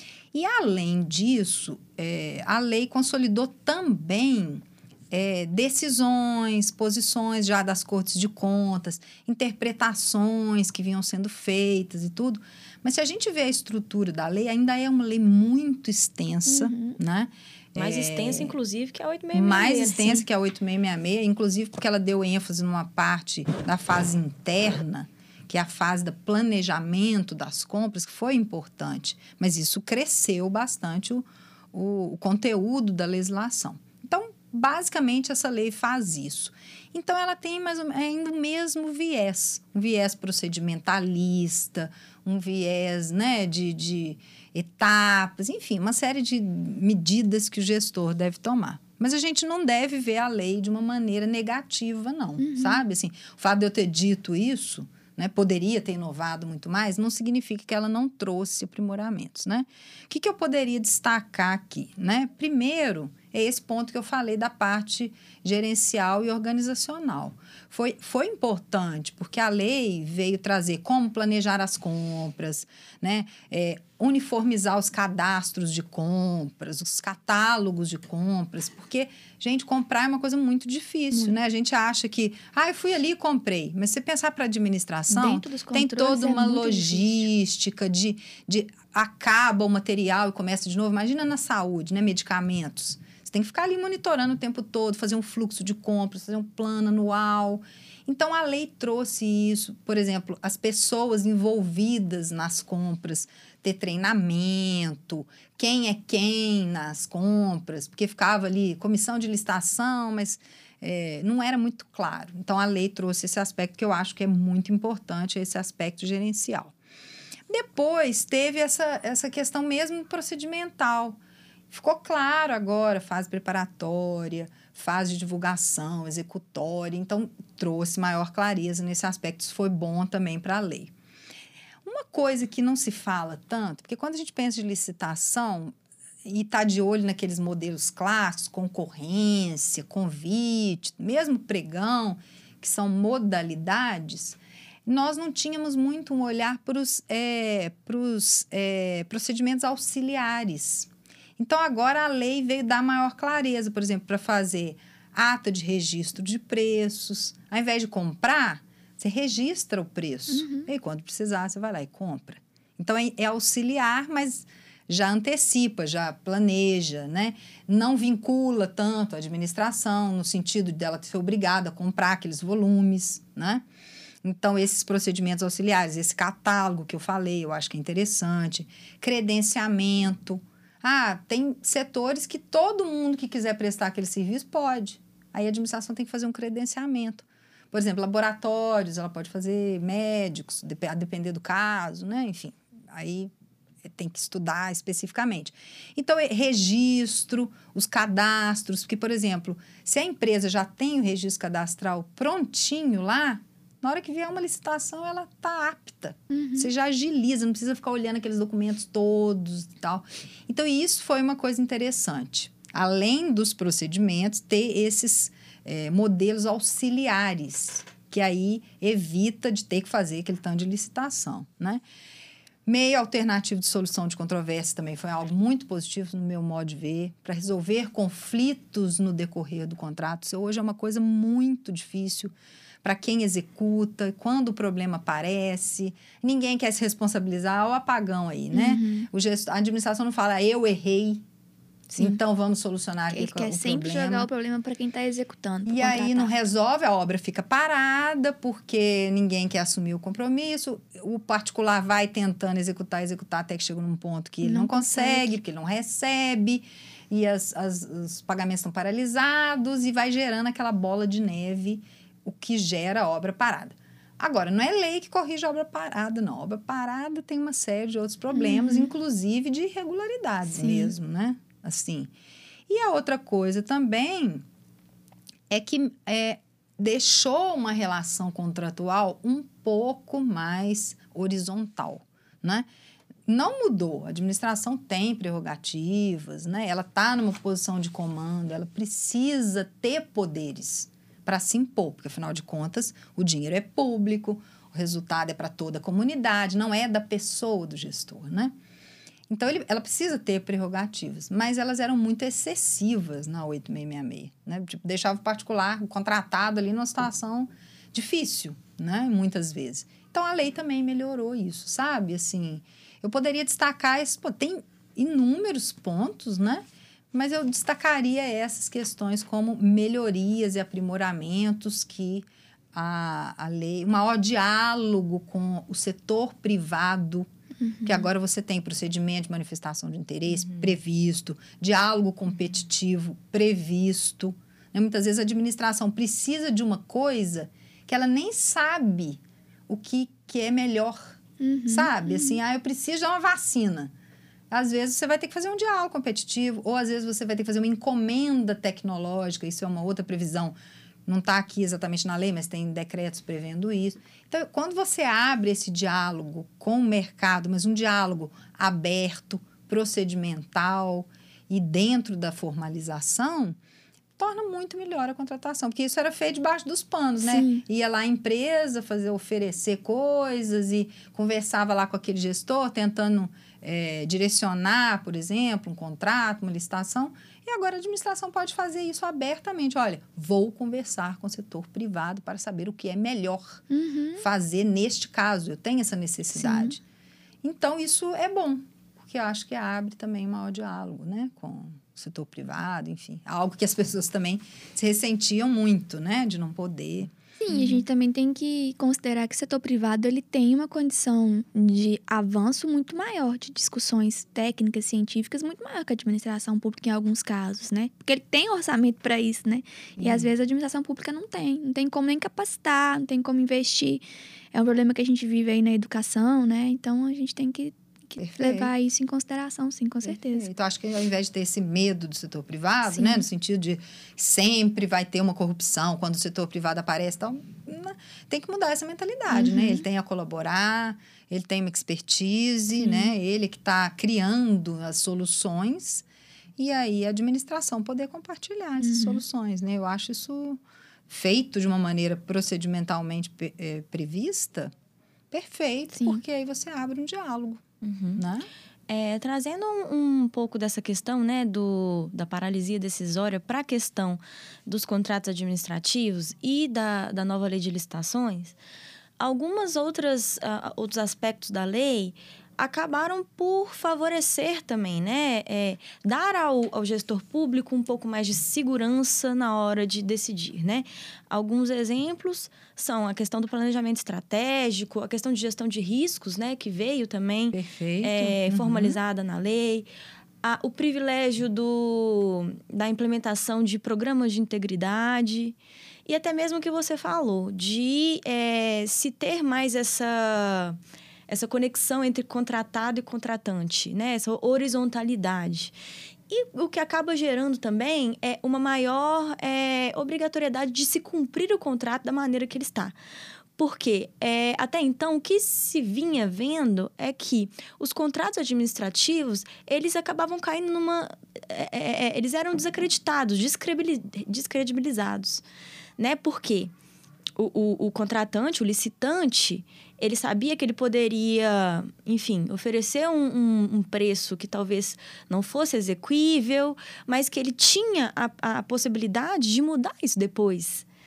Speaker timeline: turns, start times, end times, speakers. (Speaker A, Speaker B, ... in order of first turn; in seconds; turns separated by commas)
Speaker A: 0.3-18.5, Speaker B: 16.5-17.0, Speaker C: 17.8-20.2, Speaker A: 19.3-116.7, Speaker B: 52.4-52.8, Speaker B: 85.1-87.2, Speaker A: 117.5-121.2, Speaker A: 121.7-130.9, Speaker A: 131.8-173.6, Speaker B: 160.3-160.7, Speaker A: 174.2-193.3, Speaker A: 193.8-221.8, Speaker B: 206.3-206.7, Speaker A: 222.7-241.2, Speaker B: 238.5-239.1, Speaker B: 241.9-242.2, Speaker A: 242.0-244.3, Speaker B: 243.1-246.4, Speaker A: 245.7-272.1, Speaker B: 254.4-255.4, Speaker B: 268.3-268.9, Speaker B: 270.5-270.9, Speaker A: 272.7-274.4, Speaker A: 275.5-282.7, Speaker A: 283.3-298.5, Speaker A: 299.3-327.3, Speaker B: 327.6-328.1, Speaker A: 327.8-341.2, Speaker B: 341.4-342.4, Speaker A: 341.7-343.9, Speaker A: 344.5-350.5, Speaker A: 351.1-363.6, Speaker A: 364.2-383.6, Speaker B: 367.2-367.6, Speaker B: 383.7-384.2, Speaker A: 384.2-386.8, Speaker B: 386.4-386.7, Speaker A: 387.4-397.1, Speaker B: 397.4-420.5, Speaker C: 397.5-397.8, Speaker A: 410.0-410.3, Speaker A: 418.2-418.7, Speaker A: 420.0-436.0, Speaker B: 422.9-423.2, Speaker B: 429.3-429.8, Speaker A: 436.6-444.7, Speaker B: 438.8-439.2, Speaker A: 445.3-447.6, Speaker B: 445.9-446.2, Speaker C: 447.8-448.2, Speaker A: 448.2-448.5, Speaker C: 448.9-458.5, Speaker C: 459.2-479.9, Speaker A: 477.5-479.0, Speaker C: 480.4-495.7, Speaker C: 496.3-502.9, Speaker C: 503.6-515.4, Speaker C: 516.0-516.7, Speaker C: 517.4-530.8